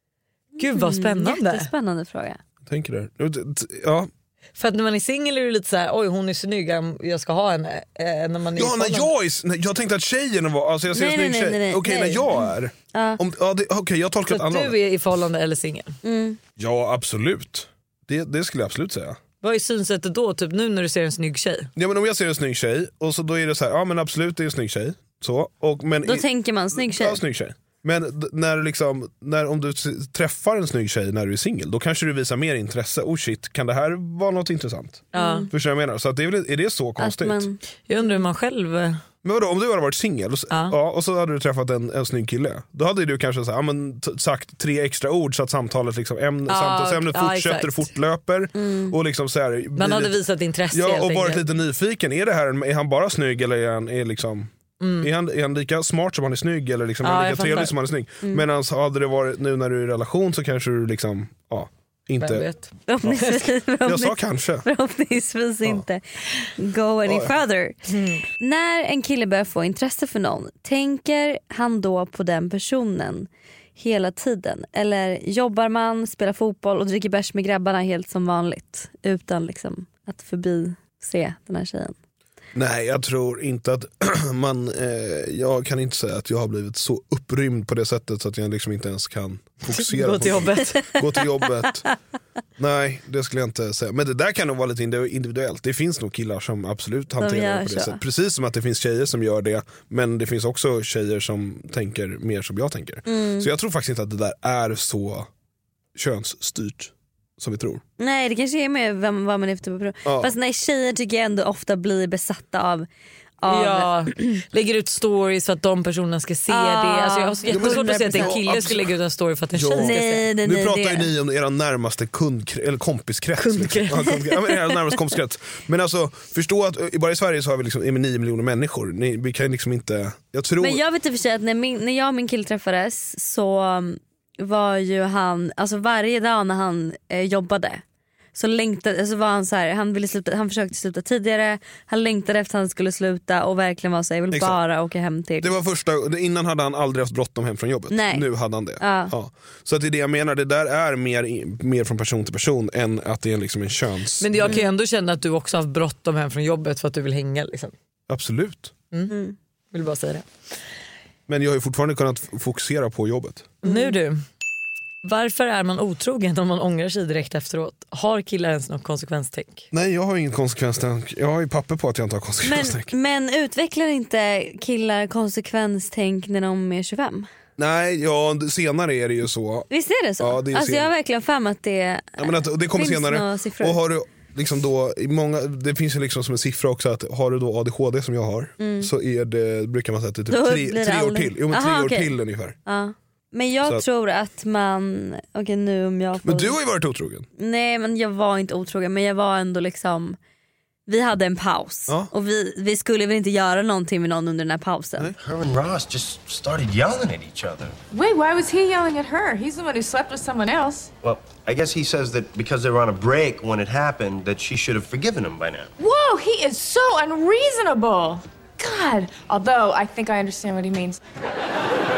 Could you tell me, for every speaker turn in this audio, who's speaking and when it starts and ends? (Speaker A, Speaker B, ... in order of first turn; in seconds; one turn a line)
Speaker A: 0.6-2.4
Speaker B: 0.6-1.7
Speaker C: 2.6-4.1
Speaker B: 4.6-9.1
Speaker C: 8.6-14.8
Speaker A: 10.9-12.4
Speaker A: 12.9-13.2
Speaker B: 14.3-15.9
Speaker A: 16.0-16.4
Speaker C: 16.6-19.2
Speaker B: 19.4-21.7
Speaker C: 21.8-37.5
Speaker A: 26.0-27.2
Speaker B: 35.1-35.5
Speaker A: 35.1-35.5
Speaker A: 37.0-37.6
Speaker B: 37.9-39.0
Speaker C: 39.2-50.2
Speaker B: 46.5-47.9
Speaker A: 48.5-48.9
Speaker B: 49.8-51.4
Speaker C: 50.7-62.5
Speaker B: 54.8-55.1
Speaker B: 57.0-57.7
Speaker B: 62.2-62.7
Speaker A: 62.9-67.8
Speaker C: 63.8-64.7
Speaker C: 67.0-67.3
Speaker B: 67.9-68.2
Speaker A: 68.4-81.9
Speaker C: 82.5-91.8
Speaker B: 89.7-91.0
Speaker C: 92.6-105.3
Speaker A: 97.2-98.0
Speaker A: 103.0-103.5
Speaker C: 105.9-107.8
Speaker A: 108.0-112.9
Speaker C: 110.0-110.3
Speaker A: 113.4-114.4
Speaker B: 113.5-120.3
Speaker A: 116.5-118.4
Speaker C: 117.5-118.9
Speaker C: 119.5-130.8
Speaker A: 119.8-121.1
Speaker B: 123.4-124.2
Speaker A: 130.6-137.8
Speaker A: 138.3-145.5
Speaker C: 144.3-144.6
Speaker C: 145.4-154.6
Speaker A: 147.9-148.3
Speaker A: 148.8-149.1
Speaker B: 154.2-157.7
Speaker C: 158.1-158.7
Speaker A: 159.1-159.3
Speaker B: 159.7-160.2
Speaker C: 161.3-163.5
Speaker B: 163.6-164.2
Speaker A: 163.6-163.9
Speaker B: 165.0-169.7
Speaker C: 169.7-172.9
Speaker A: 172.4-177.3
Speaker C: 177.6-179.7
Speaker A: 179.7-183.8
Speaker C: 180.2-180.9
Speaker C: 182.2-192.6
Speaker A: 188.6-188.9
Speaker A: 190.3-192.1
Speaker A: 192.7-196.6
Speaker C: 196.2-197.2
Speaker A: 197.4-200.2
Speaker A: 200.9-205.1
Speaker D: 205.2-207.8
Speaker E: 207.9-210.9
Speaker D: 211.0-215.7
Speaker E: 215.8-221.0